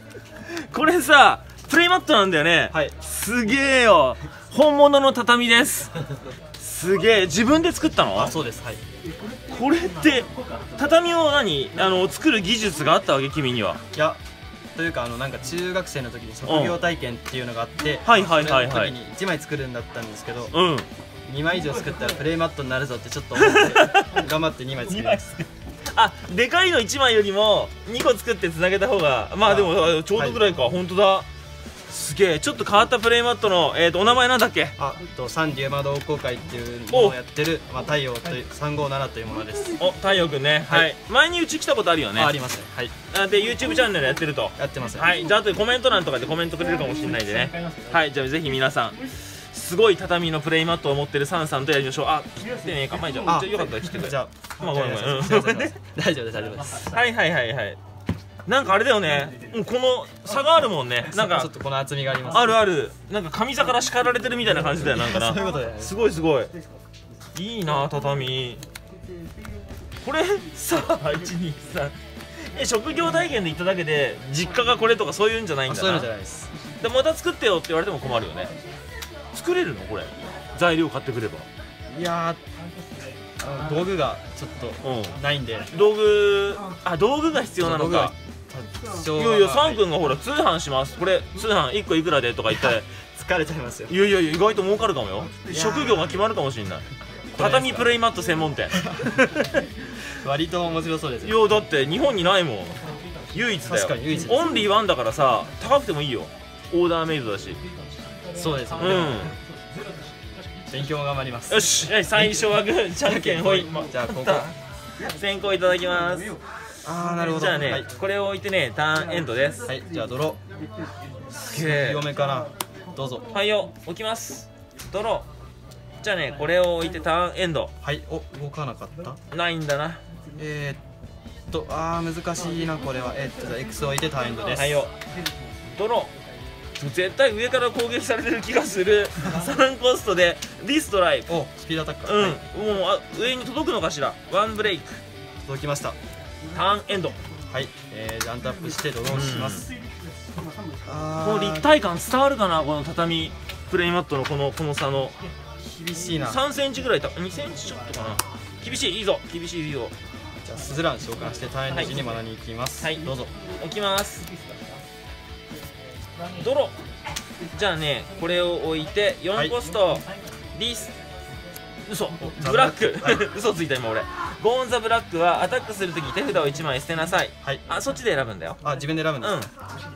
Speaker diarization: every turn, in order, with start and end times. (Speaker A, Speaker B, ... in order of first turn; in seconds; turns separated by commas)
Speaker A: 0.3-5.9, Speaker A: 6.6-8.3, Speaker B: 8.1-8.8, Speaker A: 9.5-13.8, Speaker B: 13.9-14.2, Speaker B: 14.8-20.5, Speaker A: 16.4-16.8, Speaker A: 18.0-18.9, Speaker A: 20.5-20.9, Speaker B: 21.3-25.2, Speaker A: 23.4-24.2, Speaker A: 24.9-31.3, Speaker B: 29.4-30.4, Speaker A: 31.9-34.7, Speaker B: 34.8-39.8, Speaker A: 36.9-37.2, Speaker A: 39.8-42.3, Speaker B: 42.1-42.9, Speaker A: 43.1-55.8, Speaker B: 44.5-45.1, Speaker B: 53.2-57.0, Speaker A: 56.8-57.8, Speaker A: 58.5-61.5, Speaker B: 61.1-62.7, Speaker A: 62.3-66.5, Speaker B: 64.5-65.9, Speaker A: 67.3-68.6, Speaker A: 70.0-76.1, Speaker B: 75.7-76.5, Speaker A: 76.8-78.5, Speaker A: 79.3-81.5, Speaker B: 81.9-82.4, Speaker B: 83.4-85.7, Speaker A: 84.8-85.2, Speaker A: 85.7-88.1, Speaker B: 87.6-89.8, Speaker A: 89.1-92.8, Speaker B: 92.5-93.9, Speaker A: 93.9-96.8, Speaker B: 95.5-95.9, Speaker B: 97.3-97.9, Speaker A: 97.3-98.8, Speaker B: 98.7-99.5, Speaker B: 100.2-101.5, Speaker A: 101.2-107.6, Speaker B: 103.6-104.7, Speaker B: 108.3-109.3, Speaker A: 108.7-109.3, Speaker B: 110.7-112.4, Speaker A: 111.5-116.3, Speaker B: 113.0-114.5, Speaker B: 116.8-117.9, Speaker A: 117.2-119.7, Speaker B: 119.6-120.4, Speaker A: 121.3-122.1, Speaker B: 121.5-123.3, Speaker A: 123.3-125.2, Speaker A: 126.0-127.7, Speaker B: 127.8-129.2, Speaker A: 129.3-130.0, Speaker B: 130.3-130.8, Speaker B: 131.5-134.8, Speaker A: 134.5-134.9, Speaker A: 135.7-136.1, Speaker A: 136.8-141.3, Speaker B: 141.3-142.4, Speaker A: 142.1-145.0, Speaker B: 145.4-145.9, Speaker A: 146.5-147.2, Speaker B: 147.5-149.7, Speaker A: 149.1-149.7, Speaker B: 150.8-151.7, Speaker A: 151.2-155.1, Speaker B: 155.7-156.4, Speaker A: 156.2-159.9, Speaker B: 160.4-163.3, Speaker A: 161.7-162.0, Speaker A: 163.6-164.2, Speaker A: 166.4-166.8, Speaker A: 167.5-170.0, Speaker A: 170.6-170.9, Speaker A: 171.8-178.6, Speaker B: 172.3-173.2, Speaker B: 178.6-179.4, Speaker A: 179.2-179.5